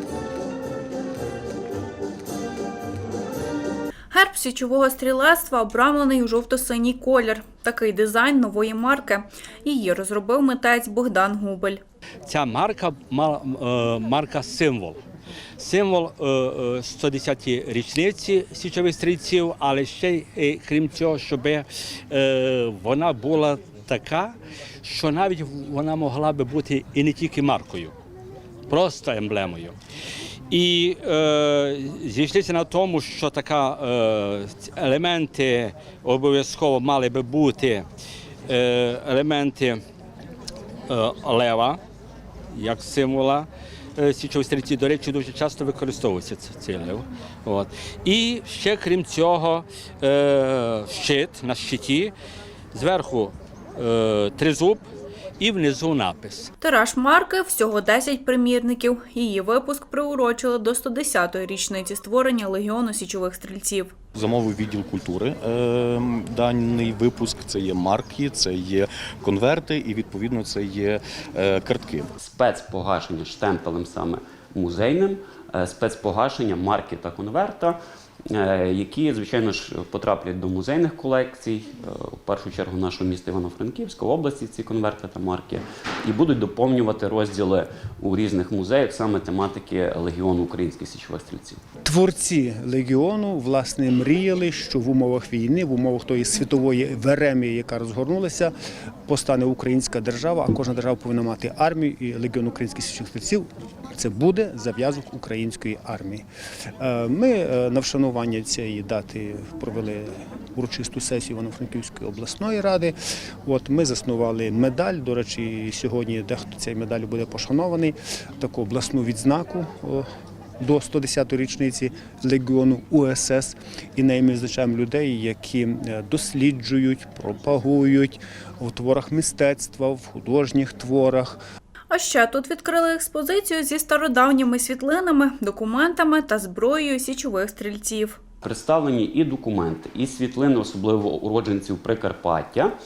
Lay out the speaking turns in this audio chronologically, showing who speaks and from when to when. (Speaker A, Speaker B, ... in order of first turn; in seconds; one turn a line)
Speaker A: 4.1-11.8
Speaker B: 12.3-15.0
Speaker B: 15.6-27.9
Speaker B: 28.7-29.8
Speaker B: 30.5-37.9
Speaker B: 38.5-39.8
Speaker B: 40.9-41.8
Speaker B: 42.5-52.1
Speaker B: 52.7-54.8
Speaker B: 55.4-56.5
Speaker A: 56.6-63.9
Speaker C: 64.2-72.1
Speaker D: 72.2-77.8
Speaker D: 78.3-91.6
Speaker E: 91.8-98.5
Speaker E: 99.1-106.2
Speaker E: 106.8-112.9
Speaker E: 113.5-120.1
Speaker E: 120.6-131.4
Speaker A: 131.9-138.2
Speaker D: 138.4-142.7